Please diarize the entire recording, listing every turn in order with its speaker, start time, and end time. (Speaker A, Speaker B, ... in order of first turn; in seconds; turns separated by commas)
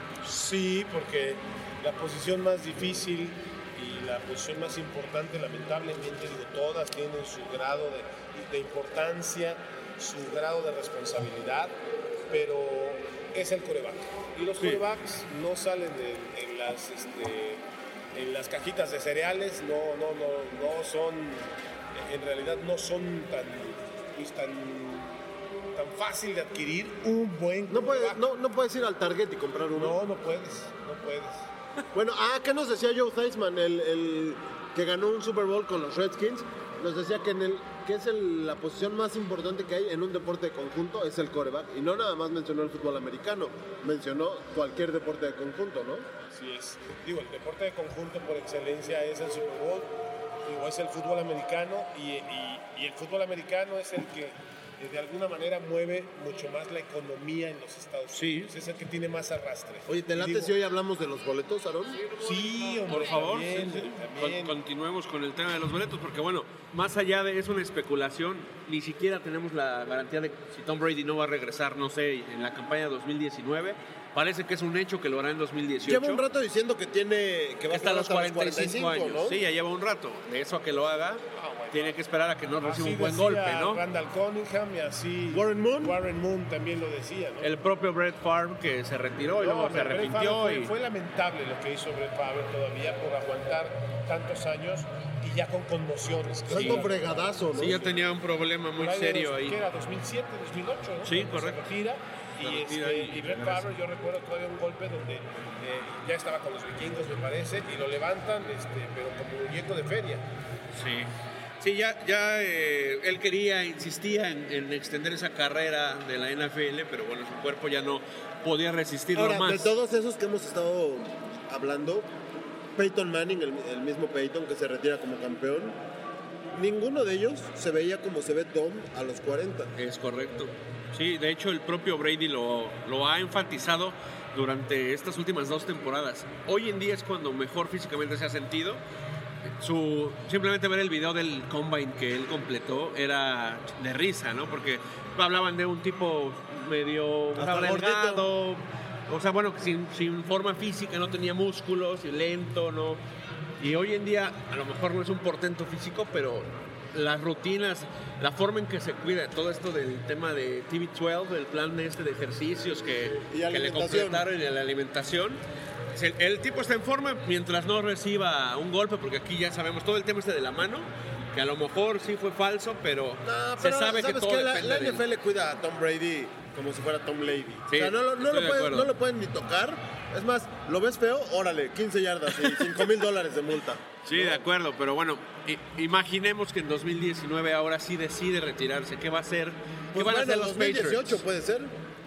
Speaker A: 0.2-11.8, Speaker A: 12.3-17.6, Speaker B: 14.6-14.8, Speaker A: 18.1-25.2, Speaker A: 25.7-28.2, Speaker C: 27.7-30.0, Speaker A: 29.7-31.5, Speaker C: 31.9-46.1, Speaker A: 46.3-49.9, Speaker A: 50.4-60.5, Speaker B: 58.1-58.5, Speaker C: 59.9-62.0, Speaker B: 61.9-76.2, Speaker A: 62.1-64.6, Speaker C: 75.8-79.4, Speaker B: 77.7-83.8, Speaker A: 81.3-82.0, Speaker A: 82.6-87.5, Speaker C: 85.3-86.0, Speaker B: 87.4-90.7, Speaker A: 89.4-98.0, Speaker C: 96.5-97.8, Speaker B: 96.5-96.9, Speaker B: 97.5-99.6, Speaker A: 98.8-110.2, Speaker B: 101.0-101.7, Speaker B: 102.4-103.7, Speaker B: 110.7-119.7, Speaker C: 119.1-122.1, Speaker C: 122.8-125.8, Speaker C: 126.5-129.7, Speaker B: 129.8-138.8, Speaker B: 139.5-153.0, Speaker C: 147.3-148.2, Speaker B: 153.6-165.4, Speaker C: 163.3-164.2, Speaker B: 165.9-175.0, Speaker C: 173.2-184.4, Speaker B: 177.7-178.9, Speaker B: 184.1-191.2, Speaker C: 189.9-191.7